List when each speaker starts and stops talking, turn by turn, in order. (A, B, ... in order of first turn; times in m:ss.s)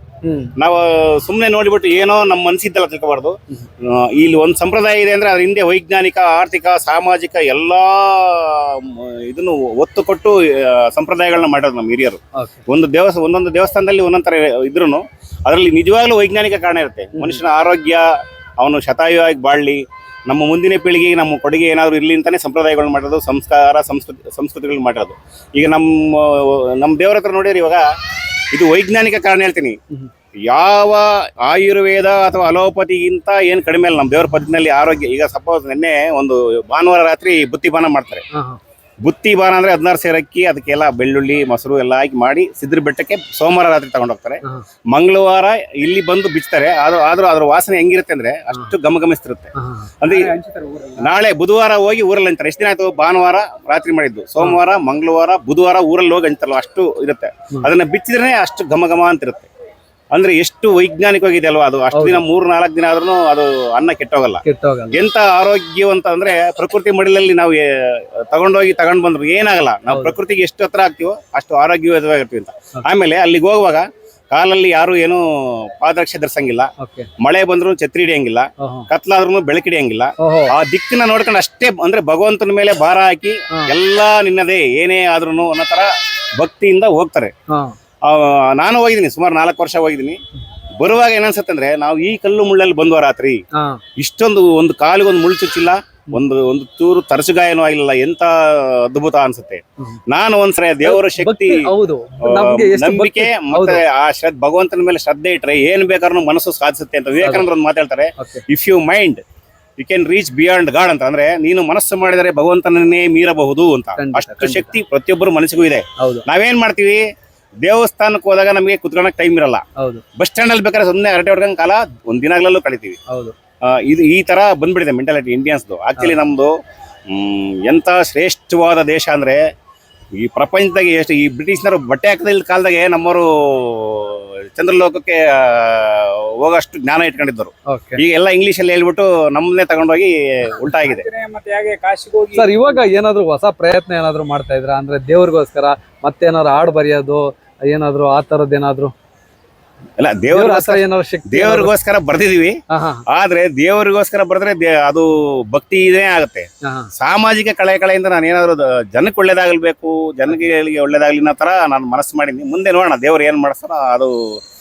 0:00.2-0:00.5 A
0:00.6-0:27.8 B
0:17.2-0:17.4 A
0:28.5-0:29.8 B
0:30.5-0:38.2 B
0:38.3-0:38.6 A
0:39.0-0:50.3 B
0:49.6-0:49.9 A
0:50.0-0:51.1 C
0:51.0-0:59.5 B
1:00.1-1:27.3 B
1:01.9-1:02.2 A
1:04.4-1:05.0 A
1:09.9-1:10.2 A
1:16.8-1:17.1 A
1:18.6-1:18.9 A
1:20.2-1:20.5 A
1:28.0-1:30.2 B
1:30.8-1:33.4 B
1:34.0-1:41.6 B
1:40.8-1:43.8 A
1:42.3-1:49.2 B
1:47.2-1:47.5 A
1:49.8-1:57.0 B
1:54.0-1:54.7 A
1:56.0-1:56.2 A
1:57.6-1:59.6 B
1:59.8-2:00.0 A
2:00.2-2:03.0 B
2:03.1-2:03.4 A
2:03.6-2:06.5 B
2:07.1-2:09.4 B
2:10.2-2:21.1 B
2:17.7-2:18.0 A
2:20.8-2:22.8 C
2:22.3-2:28.9 A
2:30.0-2:44.4 B
2:30.3-2:31.7 A
2:32.7-2:33.0 A
2:36.6-2:36.9 A